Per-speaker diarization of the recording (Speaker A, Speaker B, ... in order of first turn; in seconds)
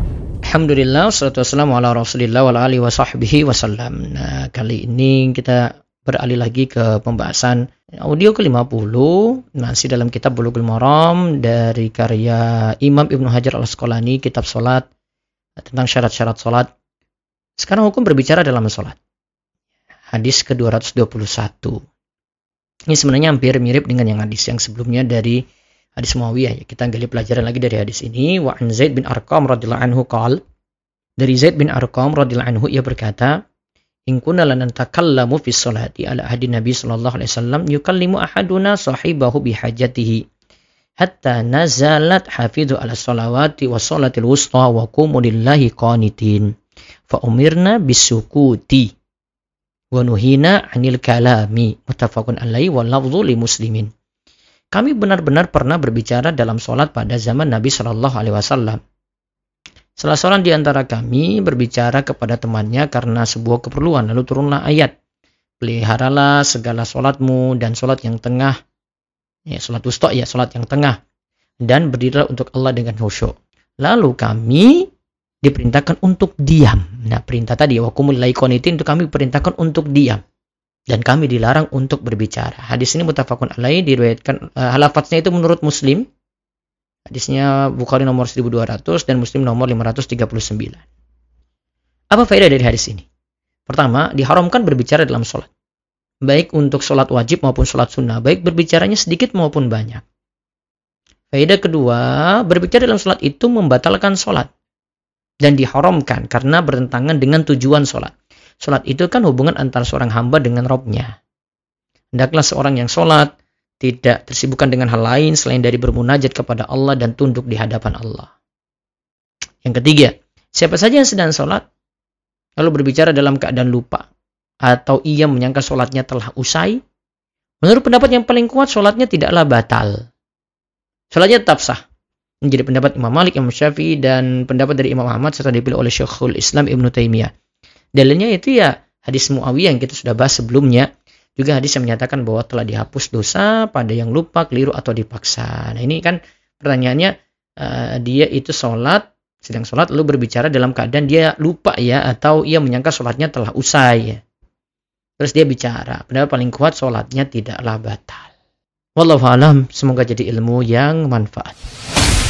Speaker A: 0.5-14.9, 15.6-16.7, 17.6-19.0, 20.1-21.8, 22.9-25.4, 26.0-30.4, 31.2-33.4, 34.1-40.2, 41.0-46.5, 47.1-48.9, 49.9-53.9, 54.7-58.8, 60.0-64.9, 65.6-68.6, 69.5-71.0, 71.6-74.9, 75.4-80.2, 80.9-86.1, 87.1-90.8, 92.1-93.1, 93.7-95.5, 96.2-100.0, 101.3-104.5, 105.4-111.1, 112.1-113.3, 113.8-118.3, 119.6-121.6, 122.6-124.1, 124.6-126.8, 127.6-130.0, 131.1-131.8, 132.4-137.3, 138.0-154.2, 155.2-158.3, 159.0-161.6